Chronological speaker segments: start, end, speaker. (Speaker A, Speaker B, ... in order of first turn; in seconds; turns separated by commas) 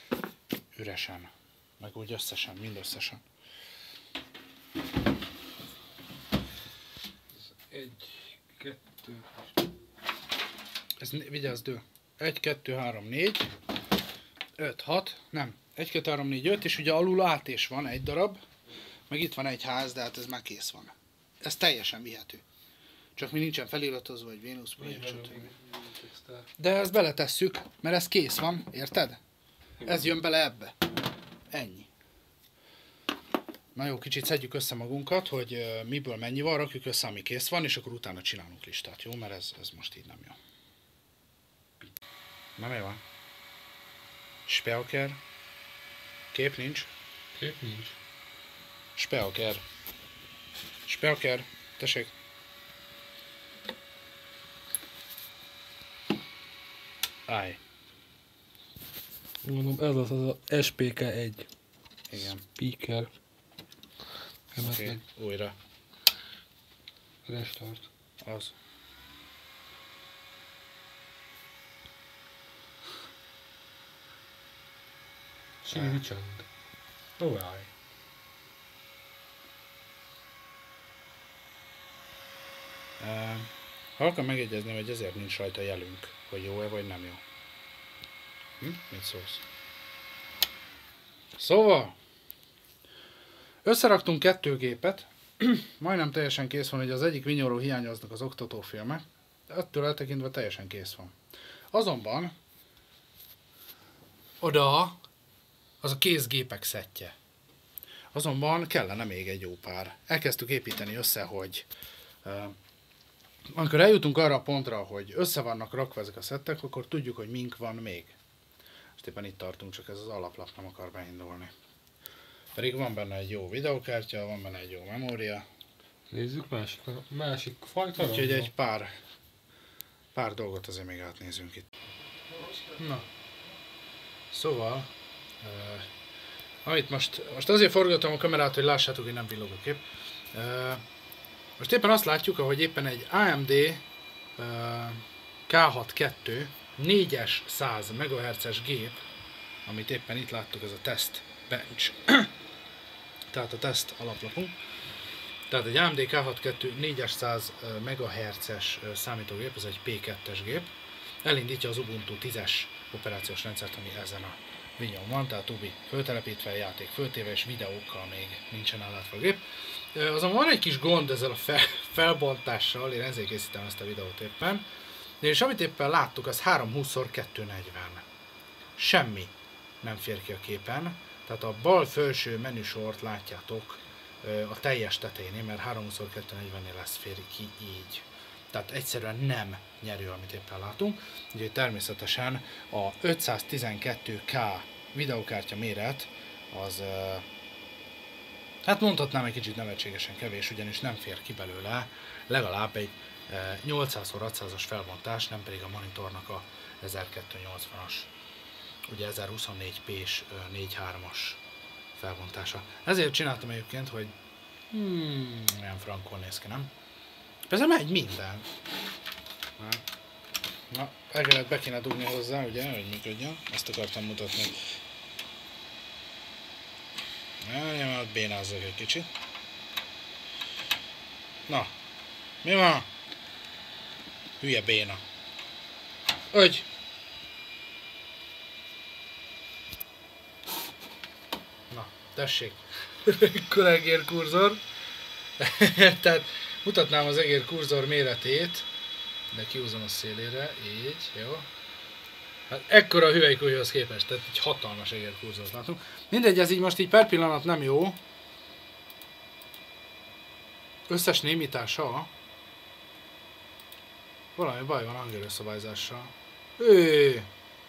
Speaker A: 0.7-3.2, Speaker B: 7.5-9.5, Speaker A: 11.0-13.5, Speaker A: 14.6-18.4, Speaker A: 19.1-22.4, Speaker A: 23.1-25.4, Speaker B: 24.8-26.5, Speaker A: 26.6-29.2, Speaker A: 29.8-30.8, Speaker A: 31.5-31.9, Speaker A: 33.7-40.4, Speaker A: 42.6-43.0, Speaker A: 44.5-45.2, Speaker A: 46.3-46.9, Speaker B: 47.4-48.0, Speaker A: 49.0-49.6, Speaker A: 50.9-52.1, Speaker A: 57.3-57.6, Speaker B: 59.4-61.5, Speaker A: 62.1-62.4, Speaker B: 62.4-63.1, Speaker B: 64.5-65.0, Speaker A: 64.6-65.5, Speaker B: 67.2-67.9, Speaker A: 68.2-68.5, Speaker B: 75.6-76.5, Speaker A: 75.7-76.0, Speaker A: 77.2-77.7, Speaker A: 83.0-87.2, Speaker A: 88.6-89.4, Speaker A: 91.4-91.9, Speaker A: 93.6-101.1, Speaker A: 101.7-102.3, Speaker A: 104.4-105.0, Speaker A: 105.8-107.1, Speaker A: 108.1-111.6, Speaker A: 112.2-112.5, Speaker A: 113.5-118.1, Speaker A: 119.0-121.5, Speaker A: 122.5-125.4, Speaker B: 126.1-128.5, Speaker A: 128.0-128.9, Speaker A: 130.1-131.7, Speaker A: 132.8-133.0, Speaker A: 134.3-134.9, Speaker A: 135.4-135.9, Speaker A: 136.6-140.8, Speaker A: 141.6-143.8, Speaker A: 144.4-149.0, Speaker A: 149.7-152.3, Speaker A: 153.3-154.5, Speaker A: 155.5-160.7, Speaker A: 161.2-169.4, Speaker A: 169.9-174.6, Speaker A: 175.2-178.0, Speaker A: 178.8-197.2, Speaker A: 198.6-208.1, Speaker A: 208.9-211.4, Speaker A: 211.9-214.1, Speaker A: 214.7-216.7, Speaker A: 217.5-218.5, Speaker A: 219.6-219.8, Speaker A: 220.7-224.8, Speaker A: 227.4-229.1, Speaker A: 232.4-232.9, Speaker A: 234.4-235.0, Speaker A: 236.3-236.7, Speaker A: 241.7-244.6, Speaker A: 245.4-248.7, Speaker A: 249.3-251.4, Speaker A: 252.5-258.0, Speaker A: 260.9-262.1, Speaker A: 264.4-267.3